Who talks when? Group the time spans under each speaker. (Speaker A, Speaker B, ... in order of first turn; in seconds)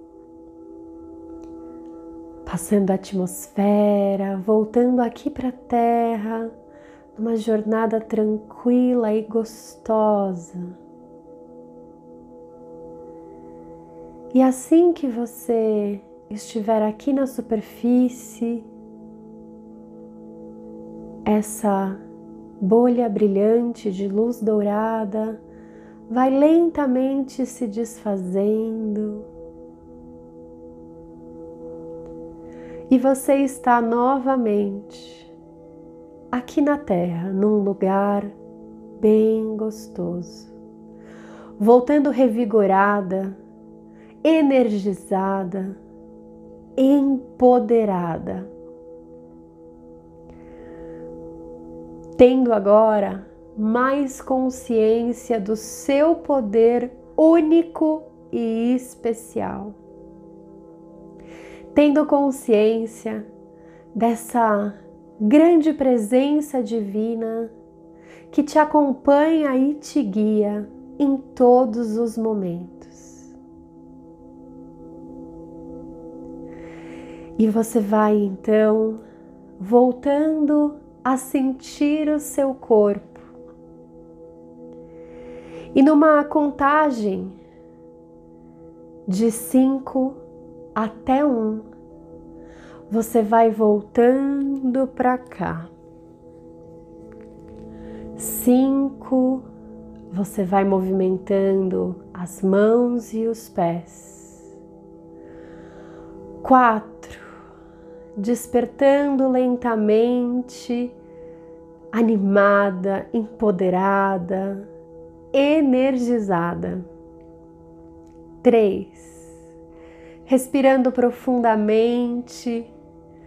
Speaker A: 2.5-6.5, 7.1-10.8, 14.3-18.7, 21.2-22.0, 22.6-25.4, 26.1-29.3, 32.9-35.3, 36.3-38.3, 39.0-40.5, 41.6-43.4, 44.2-45.8, 46.8-48.5, 52.1-59.8, 61.7-63.3, 63.9-67.5, 68.3-73.3, 77.4-79.0, 79.6-83.3, 85.7-87.4, 89.1-90.2, 90.7-91.7, 92.9-95.7, 98.2-99.4, 100.1-104.5, 106.4-107.3, 108.2-110.9, 111.9-114.7, 115.3-116.8, 118.4-119.3, 120.3-122.7